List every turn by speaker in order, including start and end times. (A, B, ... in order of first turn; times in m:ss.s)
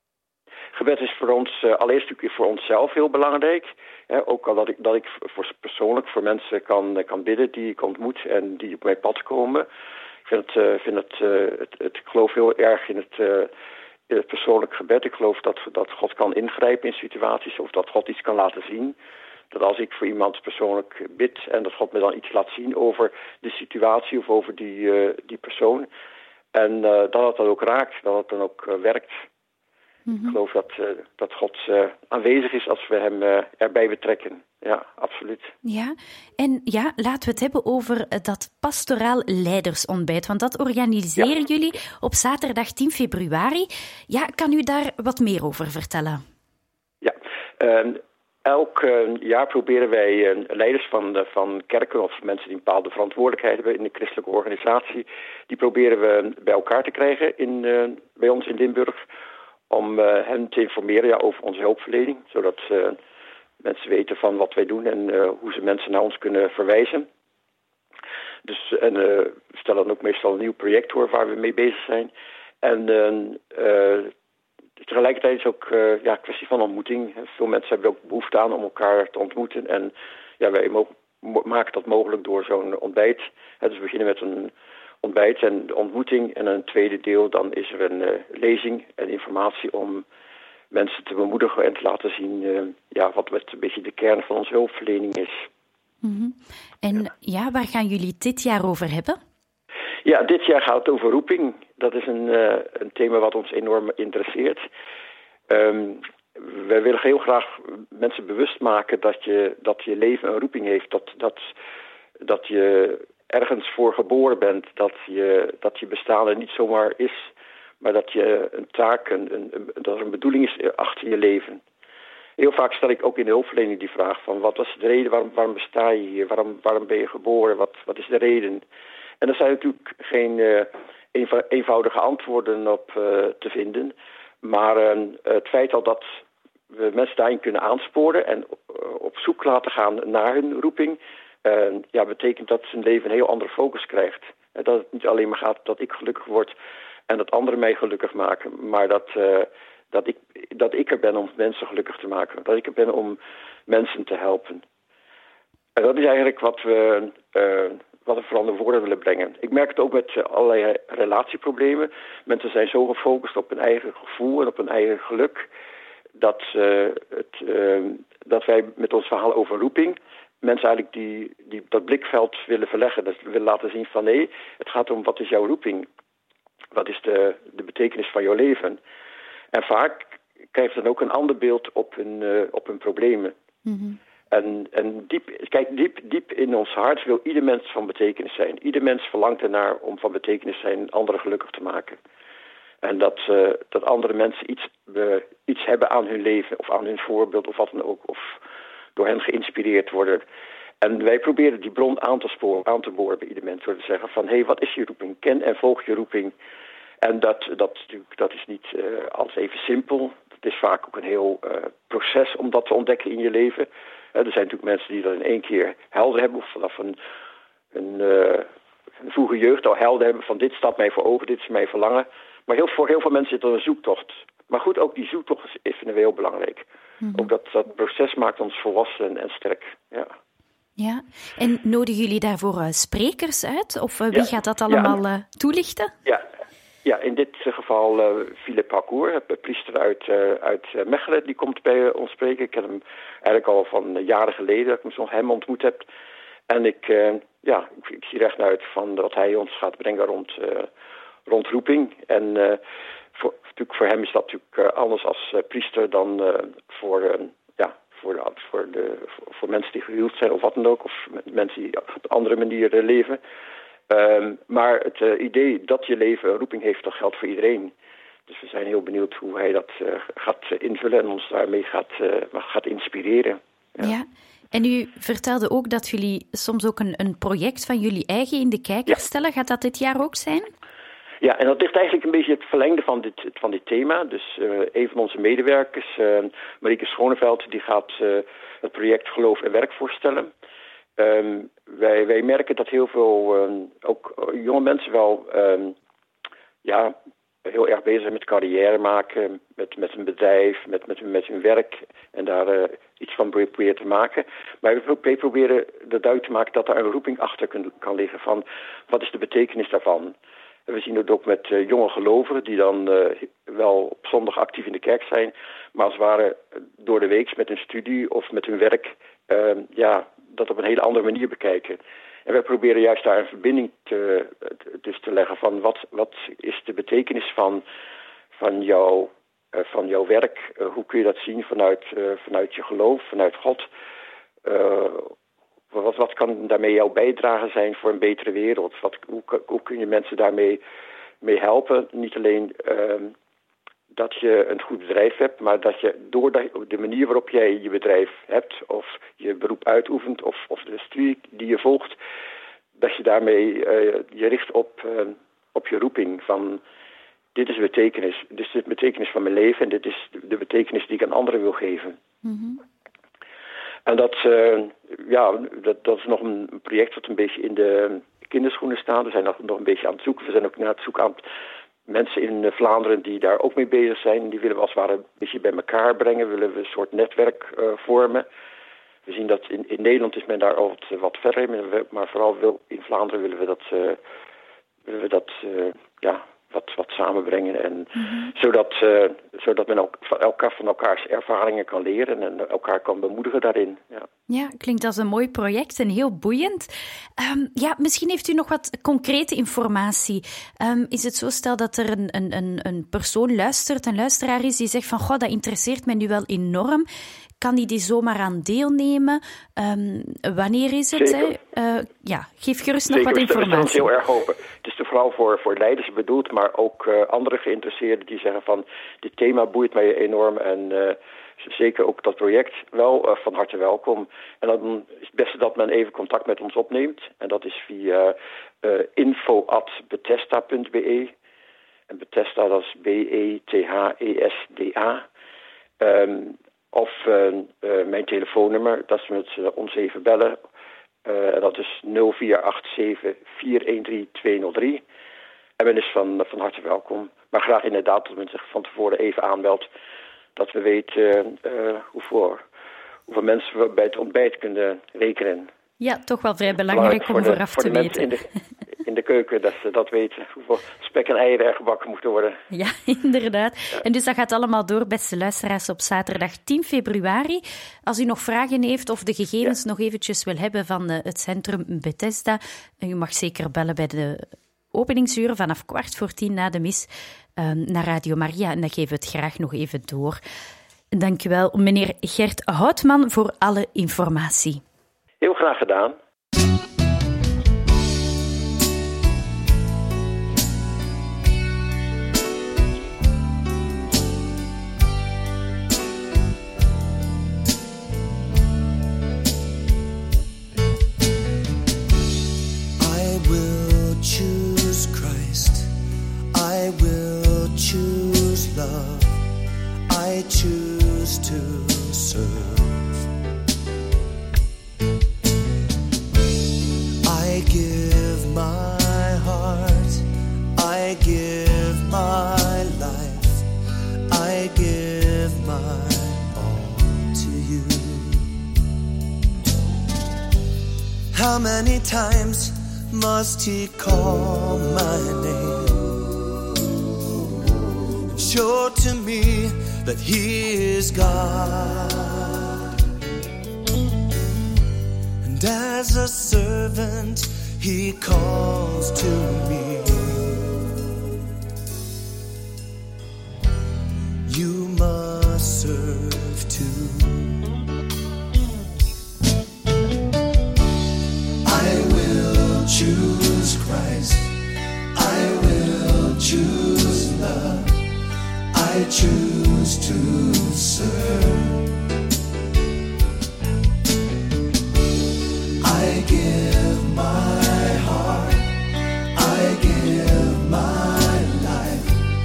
0:00.7-0:09.6 A
0:10.3-0:13.5 A
0:14.1-0:19.0 A
0:19.5-0:25.9 A
0:26.5-0:29.2 A
0:30.1-0:30.4 B
0:30.2-0:35.5 A
0:35.6-0:46.2 B
0:47.0-0:59.0 A
0:59.7-1:03.0 A
1:03.6-1:07.1 A
1:08.4-1:12.1 A
1:12.6-1:14.1 A
1:14.8-1:24.5 A
1:25.0-1:30.0 A
1:30.7-1:35.4 A
1:36.0-1:39.2 B
1:40.0-1:44.6 A
1:45.5-1:51.4 A
1:52.2-1:57.3 A
1:57.8-2:01.6 A
2:02.4-2:08.6 A
2:09.2-2:16.0 A
2:16.7-2:26.5 A
2:27.1-2:34.6 A
2:35.8-2:45.5 A
2:46.2-2:55.9 A
2:56.7-2:58.8 A
2:59.5-3:03.3 A
3:03.6-3:04.0 B
3:04.3-3:12.0 A
3:12.8-3:18.4 A
3:19.0-3:20.2 A
3:20.8-3:26.3 A
3:27.0-3:37.0 A
3:37.7-3:38.5 A
3:39.0-3:50.1 A
3:50.8-3:55.9 B
3:54.1-3:54.9 A
3:56.8-4:05.9 A
4:06.5-4:10.7 A
4:11.3-4:12.6 A
4:13.2-4:23.2 A
4:23.9-4:27.7 A
4:28.3-4:33.9 A
4:33.8-4:40.5 B
4:41.2-4:50.3 A
4:51.0-4:55.7 A
4:56.6-4:56.9 A
4:57.4-5:10.1 A
5:10.7-5:27.6 A
5:28.4-5:33.7 A
5:34.4-5:35.1 A
5:35.7-5:40.6 A
5:41.2-5:43.1 A
5:43.9-5:52.0 A
5:52.8-5:56.6 A
5:57.4-6:02.0 A
6:02.2-6:02.6 B
6:03.9-6:11.2 A
6:11.9-6:18.2 A
6:19.1-6:24.0 A
6:24.9-6:34.1 A
6:28.0-6:28.3 B
6:34.3-6:46.9 B
6:47.4-6:53.9 B
6:51.0-6:51.3 A
6:52.9-7:11.1 A
7:11.9-7:15.0 A
7:15.8-7:20.4 A
7:21.0-7:24.8 A
7:25.6-7:29.7 A
7:30.4-7:32.4 A
7:33.1-7:35.5 A
7:35.8-7:38.1 B
7:36.7-7:38.2 A
7:38.8-7:42.4 A
7:42.5-8:00.2 B
8:00.9-8:04.6 B
8:05.2-8:06.0 A
8:22.8-8:25.7 C
8:26.3-8:29.2 C
8:29.9-8:33.0 C
8:37.0-8:40.0 C
8:40.6-8:43.4 C
8:44.1-8:48.3 C
8:51.1-8:55.9 C
8:58.2-9:02.3 C
9:05.2-9:10.4 C
9:14.2-9:17.4 C
9:21.4-9:24.3 C
9:24.9-9:27.7 C
9:28.5-9:31.6 C
9:35.6-9:38.5 C
9:39.1-9:42.0 C